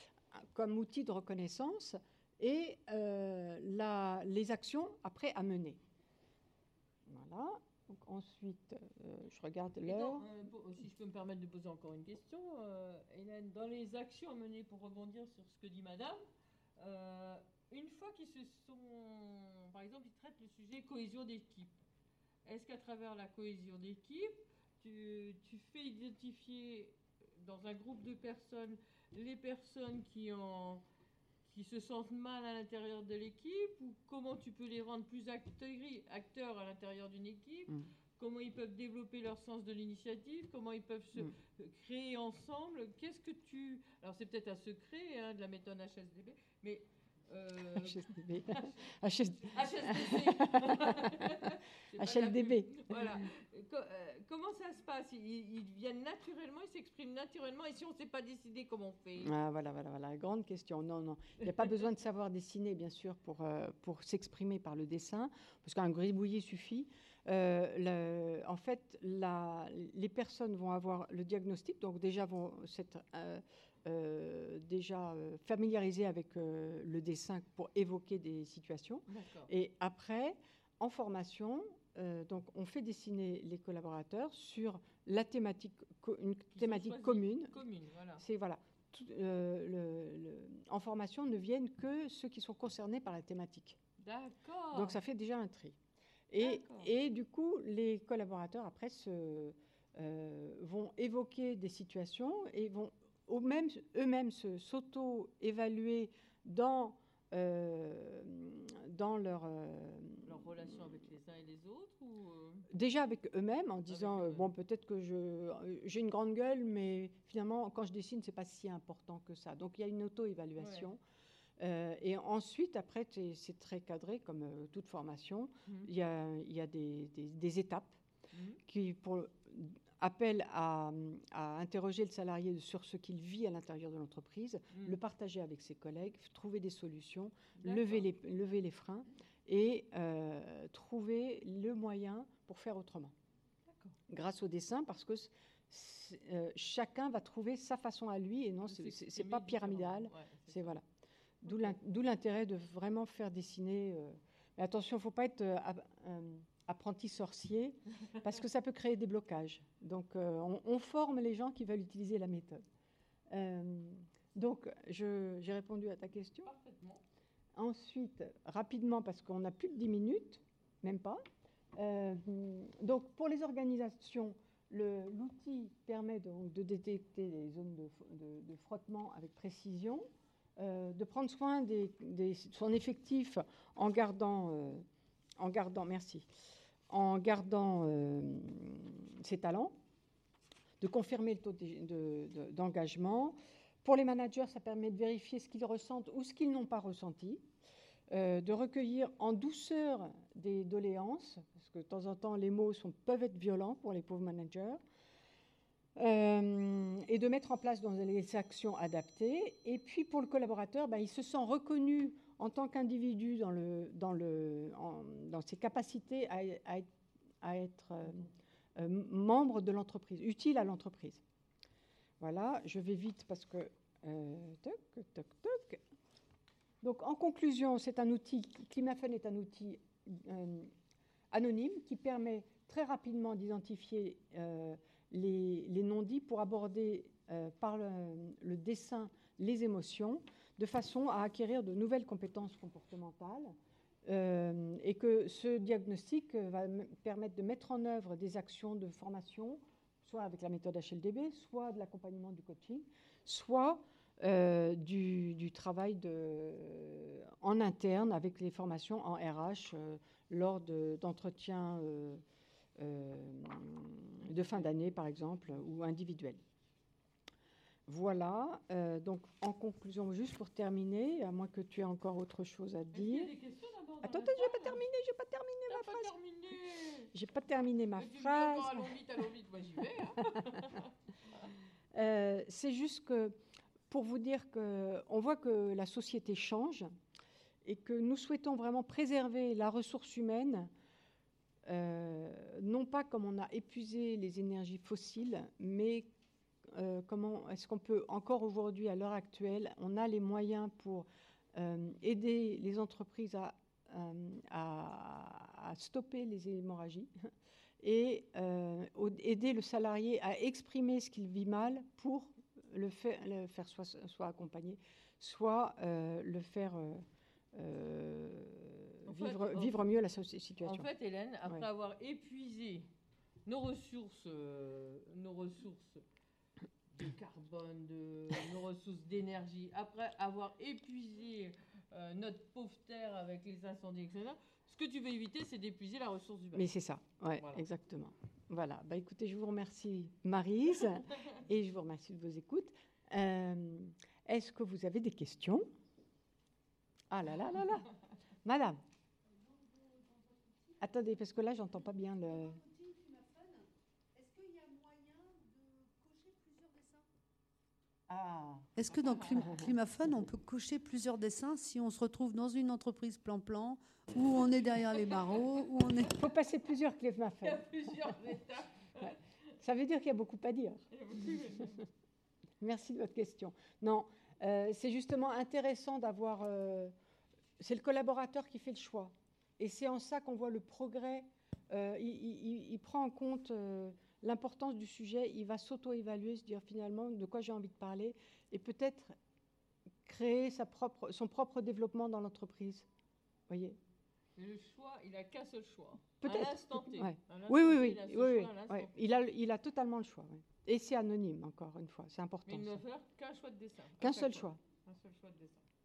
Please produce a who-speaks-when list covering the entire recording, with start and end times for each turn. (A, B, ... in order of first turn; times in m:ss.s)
0:00.3-0:05.8 A
0:07.1-0:10.2 A
0:09.8-0:16.2 B
0:16.8-0:21.7 B
0:22.4-0:30.8 B
0:31.4-0:59.3 B
0:47.7-0:53.1 A
0:59.2-1:27.6 A
1:19.1-1:19.5 B
1:26.5-1:28.2 B
1:28.2-1:33.8 A
1:34.0-1:35.0 B
1:34.7-1:35.8 A
1:36.3-1:50.3 A
1:36.4-1:36.9 B
1:50.2-1:52.6 B
1:52.7-2:01.0 A
1:53.9-1:54.5 B
2:00.6-2:00.9 B
2:01.6-2:08.0 A
2:08.3-2:08.6 B
2:08.6-2:23.1 A
2:17.6-2:18.0 B
2:23.7-2:24.0 B
2:24.1-2:30.8 A
2:28.7-2:30.8 B
2:31.4-2:42.6 A
2:31.4-2:31.7 B
2:43.3-2:46.5 A
2:46.4-2:47.0 B
2:47.5-2:51.2 A
2:51.7-3:04.8 A
3:05.4-3:06.3 A
3:06.9-3:09.7 A
3:10.8-3:17.4 A
3:18.1-3:24.8 A
3:26.0-3:36.9 A
3:37.4-3:41.2 A
3:42.2-3:45.8 A
3:46.8-3:50.7 A
3:51.3-4:03.5 A
4:04.0-4:22.2 A
4:22.8-4:26.4 A
4:27.9-4:33.3 A
4:32.9-4:34.8 B
4:34.0-4:36.1 A
4:35.7-4:37.1 B
4:37.1-4:39.0 A
4:38.0-4:40.9 B
4:41.9-4:43.4 A
4:43.9-4:46.9 A
4:47.6-4:50.7 A
4:51.6-4:56.1 A
4:56.7-5:07.1 A
5:07.8-5:17.0 A
5:17.5-5:20.9 A
5:19.1-5:19.8 B
5:20.6-5:22.9 B
5:23.4-5:26.0 B
5:26.9-5:36.7 B
5:36.5-5:45.7 A
5:37.4-5:37.6 B
5:47.1-5:47.9 A
5:48.4-5:48.8 A
5:50.8-5:52.7 A
5:52.9-5:53.5 C
5:54.2-5:56.9 C
5:58.1-5:58.7 A
5:58.8-6:06.2 C
5:59.1-5:59.4 B
6:06.1-6:08.1 A
6:07.4-6:09.2 B
6:09.6-6:10.8 A
6:10.9-6:11.8 B
6:12.6-6:16.9 A
6:17.6-6:29.2 A
6:30.0-6:32.9 A
6:33.5-6:33.8 A
6:34.4-6:38.9 B
6:36.2-6:42.8 A
6:42.4-6:45.6 B
6:44.0-6:44.6 A